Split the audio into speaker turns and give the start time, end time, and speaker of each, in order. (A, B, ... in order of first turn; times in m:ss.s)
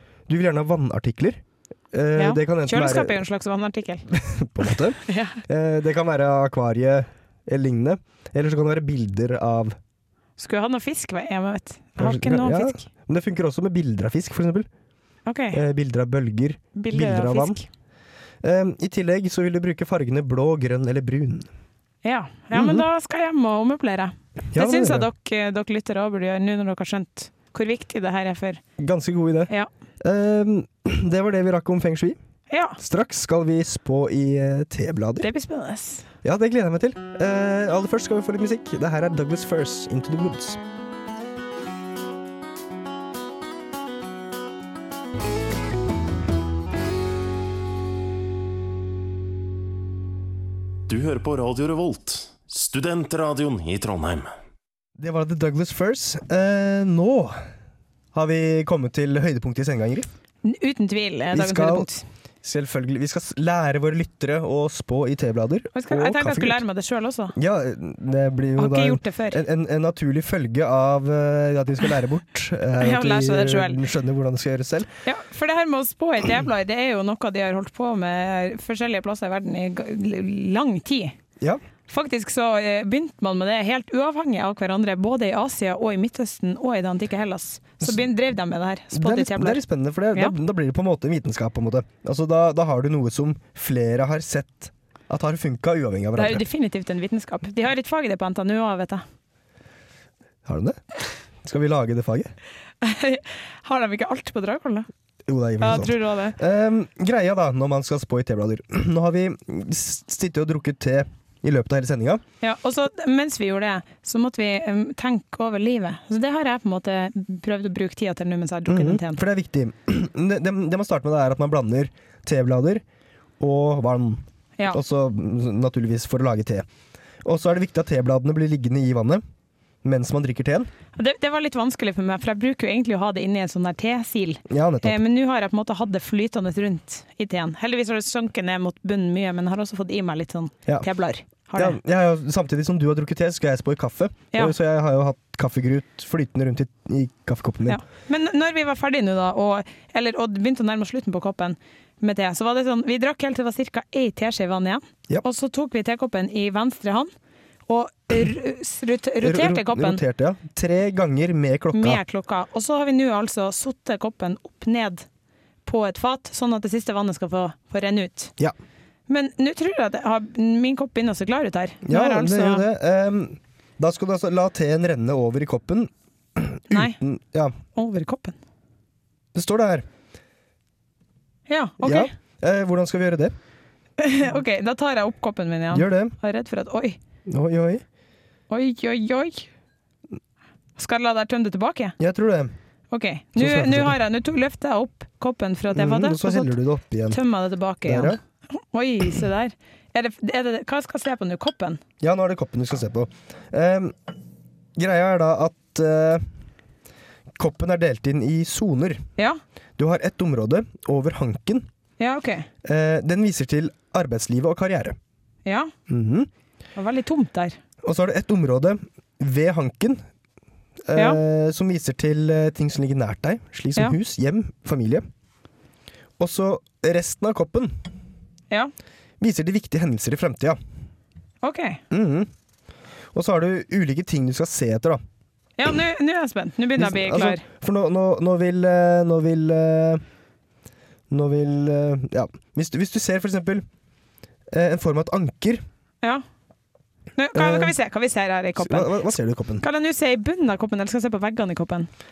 0:00.3-0:03.2 A
0:02.2-0:04.0 B
0:04.1-0:09.8 A
0:05.1-0:05.4 B
0:10.4-0:12.9 B
0:12.0-0:14.7 A
0:15.3-0:15.6 B
0:15.5-0:17.6 A
0:16.8-0:17.6 B
0:18.4-0:21.5 A
0:22.0-0:28.6 B
0:22.5-0:22.8 A
0:24.5-0:25.1 A
0:28.8-0:32.2 A
0:32.5-0:32.8 B
0:32.8-0:35.3 A
0:35.2-0:36.1 B
0:36.2-0:40.6 A
0:50.9-0:54.3 C
0:55.0-0:57.4 A
0:58.1-1:00.1 A
1:00.4-1:02.0 B
1:01.3-1:01.9 A
1:02.4-1:06.6 A
1:05.8-1:07.4 B
1:07.4-1:14.9 A
1:08.6-1:09.4 B
1:12.8-1:13.8 B
1:15.0-1:21.2 B
1:21.9-1:29.6 B
1:28.9-1:36.4 A
1:36.2-1:39.0 B
1:40.4-1:40.8 A
1:41.4-1:42.3 A
1:42.8-1:44.9 B
1:45.3-1:52.2 A
1:45.6-1:46.4 B
1:52.4-1:59.2 B
1:58.7-2:02.8 A
2:03.4-2:06.7 A
2:07.2-2:09.2 A
2:09.8-2:10.7 A
2:11.0-2:21.8 B
2:14.5-2:15.0 A
2:21.6-2:27.8 A
2:27.7-2:37.1 B
2:37.7-2:40.0 B
2:39.2-2:42.0 A
2:41.7-2:45.1 B
2:45.6-2:48.3 B
2:49.1-2:52.6 B
2:51.8-2:57.6 A
2:56.7-2:57.0 B
2:57.7-2:58.4 B
2:59.3-2:59.9 A
3:01.5-3:02.1 B
3:01.8-3:03.4 A
3:04.0-3:07.0 B
3:05.7-3:06.2 A
3:07.3-3:07.8 A
3:08.5-3:09.5 B
3:10.8-3:12.0 B
3:12.0-3:12.5 A
3:12.9-3:16.6 B
3:13.4-3:14.0 A
3:15.7-3:17.2 A
3:17.1-3:21.8 B
3:17.8-3:18.2 A
3:22.0-3:24.0 A
3:24.8-3:26.2 A
3:27.4-3:29.0 A
3:29.8-3:31.7 A
3:32.0-3:32.5 B
3:32.6-3:35.0 A
3:35.4-3:35.7 B
3:35.9-3:36.3 A
3:36.8-3:37.6 B
3:37.8-3:40.0 A
3:40.8-3:45.1 A
3:46.2-3:47.8 A
3:49.2-3:50.6 A
3:51.4-3:51.8 B
3:51.9-3:52.3 A
3:53.1-3:55.0 A
3:55.6-3:57.4 B
3:56.8-4:00.0 A
4:01.1-4:03.6 A
4:04.5-4:05.6 A
4:07.2-4:09.1 B
4:07.4-4:07.8 A
4:08.6-4:09.6 A
4:09.6-4:11.9 B